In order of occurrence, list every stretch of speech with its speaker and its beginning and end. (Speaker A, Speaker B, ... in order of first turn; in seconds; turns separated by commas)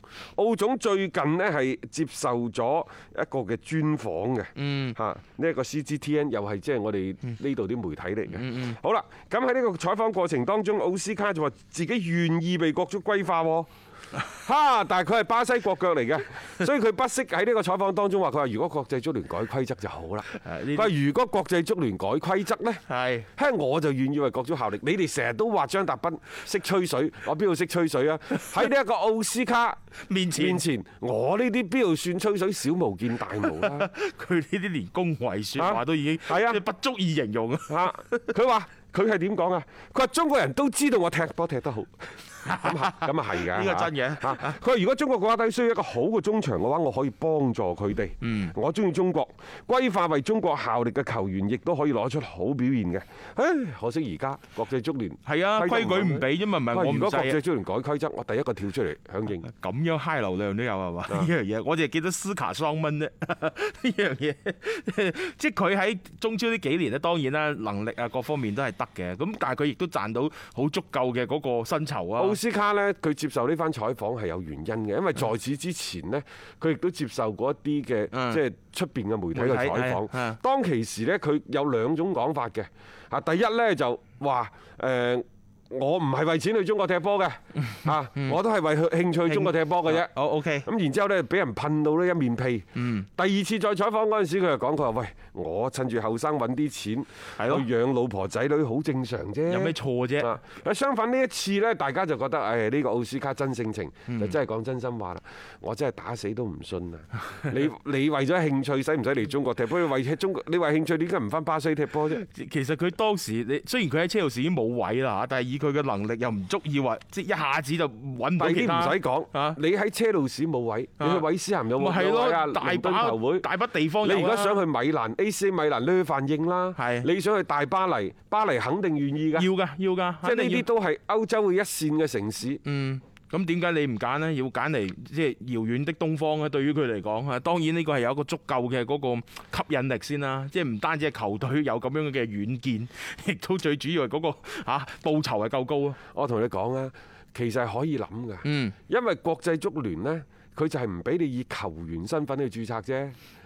Speaker A: 0.4-13.7, Speaker B: 4.6-5.0, Speaker B: 8.3-8.8, Speaker A: 14.3-29.8, Speaker B: 20.3-20.9, Speaker B: 22.9-23.3, Speaker B: 30.1-30.6, Speaker A: 30.4-33.9, Speaker B: 33.4-38.3, Speaker A: 35.6-36.6, Speaker A: 37.7-59.5, Speaker B: 42.4-44.6, Speaker B: 48.2-48.5, Speaker B: 55.2-57.4, Speaker B: 59.4-72.4, Speaker A: 72.2-90.1, Speaker B: 78.1-78.4, Speaker B: 79.3-80.4, Speaker B: 87.7-88.4, Speaker B: 89.3-90.7, Speaker A: 90.6-112.2, Speaker B: 92.8-93.1, Speaker B: 97.4-97.7, Speaker B: 99.5-100.4, Speaker B: 104.1-104.3, Speaker B: 112.1-119.6, Speaker A: 118.4-123.5, Speaker B: 121.0-124.6, Speaker A: 124.0-129.5, Speaker B: 126.8-127.1, Speaker B: 129.4-130.7, Speaker A: 130.2-132.6, Speaker B: 132.6-146.0, Speaker A: 146.1-153.2, Speaker B: 148.4-148.7